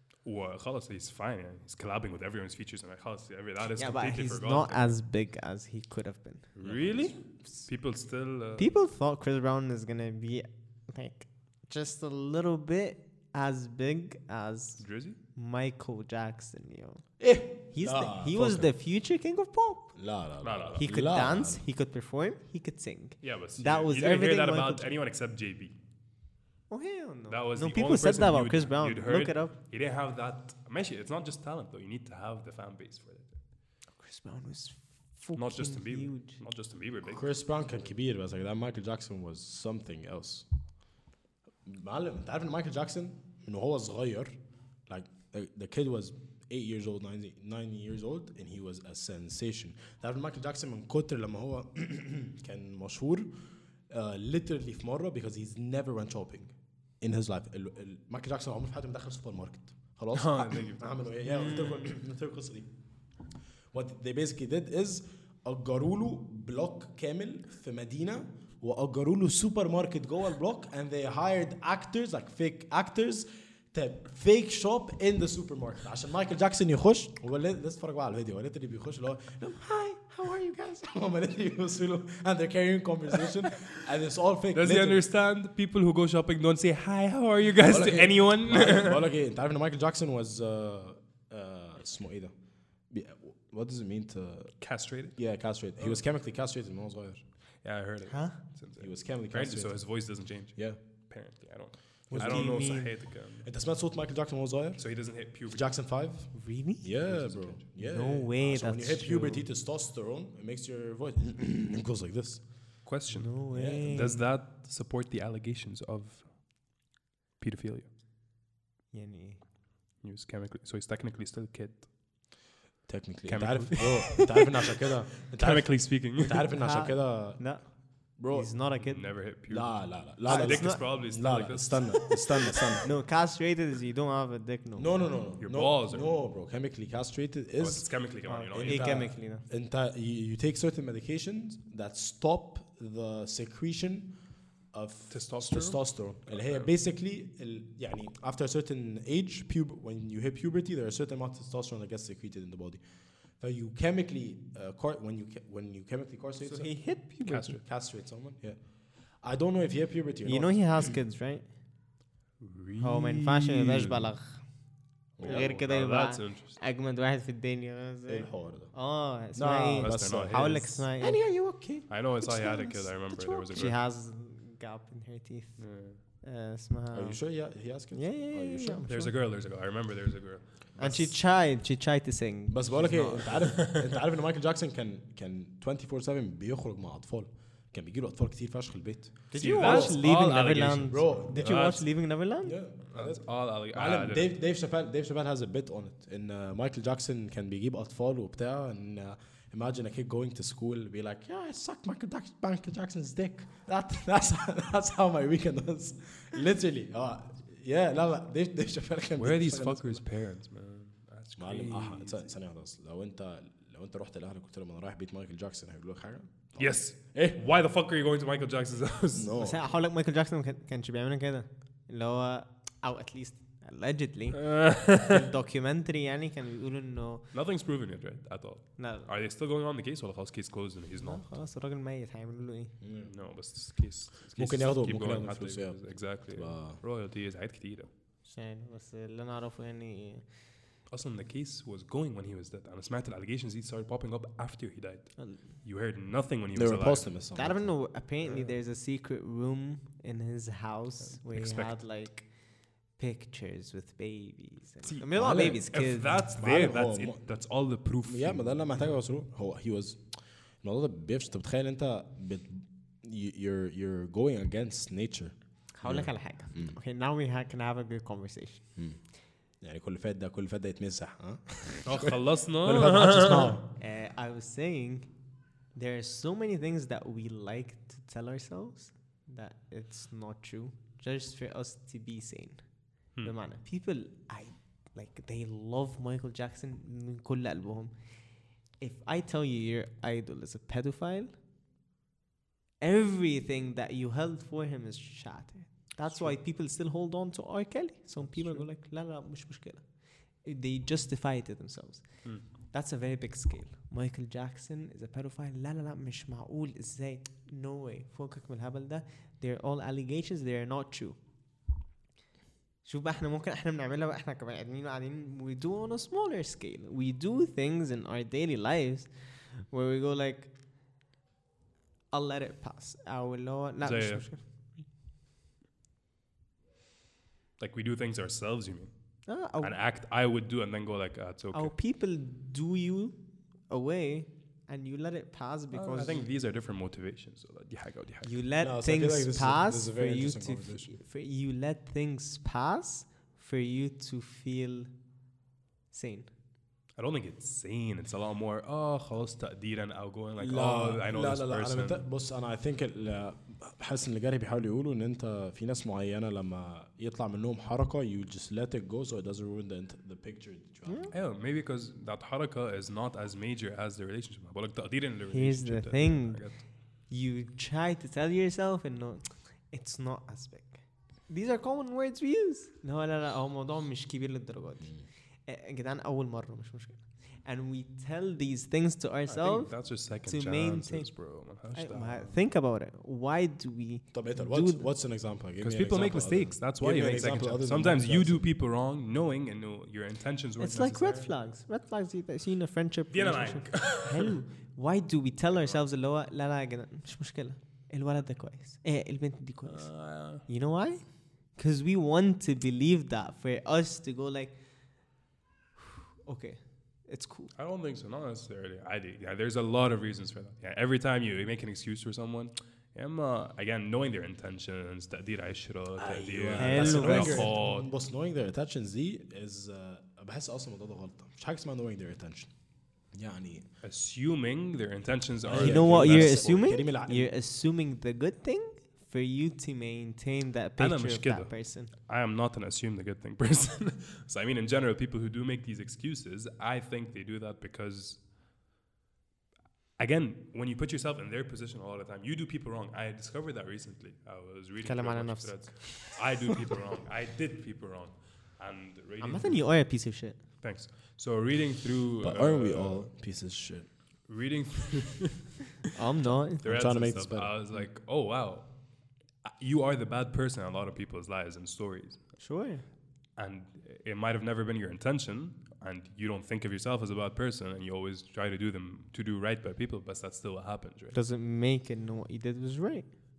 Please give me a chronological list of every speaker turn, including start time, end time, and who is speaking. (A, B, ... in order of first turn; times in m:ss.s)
0:00.2-0:05.0 A
0:03.8-0:06.5 B
0:06.6-0:08.7 A
0:06.6-0:07.2 C
0:08.6-0:20.0 B
0:14.8-0:15.2 A
0:17.2-0:18.7 C
0:20.0-0:21.6 C
0:20.4-0:20.9 A
0:20.7-0:24.9 B
0:23.2-0:25.7 A
0:26.7-0:29.5 B
0:27.3-0:33.4 A
0:34.0-0:36.4 B
0:35.3-0:37.3 A
0:37.1-0:40.4 C
0:41.7-0:53.3 C
0:53.9-1:02.7 C
1:00.1-1:00.9 A
1:01.3-1:01.9 B
1:03.7-1:25.0 C
1:24.5-1:29.0 A
1:27.6-1:32.3 C
1:32.9-1:34.6 C
1:34.6-1:35.2 A
1:35.1-1:37.2 C
1:35.8-1:36.0 A
1:37.6-1:43.5 A
1:38.1-1:38.4 B
1:38.8-1:40.8 C
1:42.1-1:42.8 C
1:42.1-1:43.0 B
1:43.4-1:52.5 C
1:44.8-1:45.7 A
1:46.3-1:46.9 B
1:47.0-1:47.7 A
1:47.8-1:49.4 B
1:52.8-1:56.3 A
1:53.1-1:54.2 B
1:53.5-1:53.9 C
1:57.4-1:57.9 A
1:58.9-1:59.4 B
2:00.0-2:01.9 A
2:02.9-2:07.4 C
2:03.3-2:04.3 A
2:05.3-2:06.5 A
2:06.6-2:09.1 B
2:08.2-2:08.5 C
2:08.8-2:12.1 A
2:09.5-2:12.9 C
2:10.3-2:10.8 B
2:12.8-2:15.2 B
2:14.8-2:24.1 C
2:15.4-2:16.1 A
2:17.6-2:19.1 A
2:18.3-2:19.4 B
2:24.7-2:32.8 C
2:25.1-2:26.7 A
2:33.4-2:37.0 C
2:36.4-2:37.6 B
2:37.2-2:37.6 A
2:37.6-2:38.6 C
2:39.2-2:41.0 C
2:40.2-2:41.4 B
2:42.4-2:44.1 A
2:42.8-2:44.5 B
2:45.2-2:45.5 C
2:45.2-2:51.2 B
2:45.2-2:46.6 A
2:48.1-2:48.7 C
2:49.3-2:53.6 C
2:49.8-2:50.9 A
2:51.9-2:53.8 A
2:52.3-2:57.2 B
2:55.6-2:56.0 A
2:56.9-2:58.8 C
2:57.9-2:59.1 B
2:58.9-3:01.1 A
3:00.8-3:01.0 C
3:00.8-3:03.5 B
3:02.5-3:10.0 C
3:03.3-3:03.7 A
3:09.3-3:12.6 B
3:09.4-3:11.9 A
3:10.9-3:11.8 C
3:12.4-3:30.0 C
3:12.9-3:14.3 A
3:29.2-3:32.3 A
3:31.4-3:37.4 C
3:36.6-3:39.3 A
3:39.1-3:39.6 C
3:39.4-3:47.3 B
3:44.4-3:45.2 A
3:47.3-3:51.3 A
3:48.8-3:49.1 B
3:51.0-3:52.8 B
3:52.8-3:53.1 C
3:53.0-3:57.9 A
3:54.3-3:56.8 C
3:58.2-4:00.3 B
4:00.9-4:07.1 A
4:06.6-4:07.7 C
4:07.4-4:12.3 B
4:08.2-4:08.6 A
4:11.0-4:11.8 A
4:12.9-4:16.2 B
4:14.8-4:19.0 A
4:15.2-4:15.6 C
4:16.3-4:17.2 C
4:18.0-4:26.8 C
4:25.8-4:28.7 B
4:28.8-4:29.0 C
4:29.6-4:33.6 C
4:31.8-4:33.6 A
4:33.8-4:35.1 B
4:35.7-4:47.9 B
4:48.8-4:51.3 B
4:52.8-5:11.2 B
4:56.1-4:56.4 A
4:58.2-4:58.7 A
5:12.8-5:20.5 B
5:22.1-5:24.4 B
5:23.8-5:24.3 A
5:27.6-5:28.9 A
5:29.3-5:29.8 B
5:29.6-5:31.7 A
5:31.5-5:33.2 B
5:33.7-5:36.3 B
5:35.7-5:38.3 A
5:38.2-5:44.9 B
5:38.6-5:40.9 C
5:45.9-5:46.3 B
5:47.0-5:52.0 A
5:50.4-6:01.1 C
6:00.9-6:01.1 B
6:01.1-6:06.6 A
6:05.3-6:24.9 B
6:19.3-6:22.4 A
6:24.1-6:28.4 C
6:25.6-6:31.3 A
6:30.6-6:44.6 B
6:33.1-6:34.3 A
6:39.7-6:40.4 A
6:46.2-6:47.5 B
6:47.6-6:57.9 A
6:56.0-7:02.5 C
6:56.6-6:57.5 B
7:03.1-7:03.7 C
7:03.8-7:06.7 A
7:05.4-7:07.3 C
7:05.5-7:11.9 B
7:10.8-7:18.2 A
7:20.0-7:29.7 A
7:24.8-7:26.6 B
7:29.2-7:30.4 B
7:30.6-7:33.1 A
7:32.2-7:33.9 C
7:34.3-7:35.5 A
7:35.9-7:36.7 B
7:36.6-7:38.7 A
7:36.6-7:37.6 C
7:39.4-7:42.2 A
7:42.4-7:42.8 B
7:43.4-7:51.2 A
7:51.1-7:53.2 B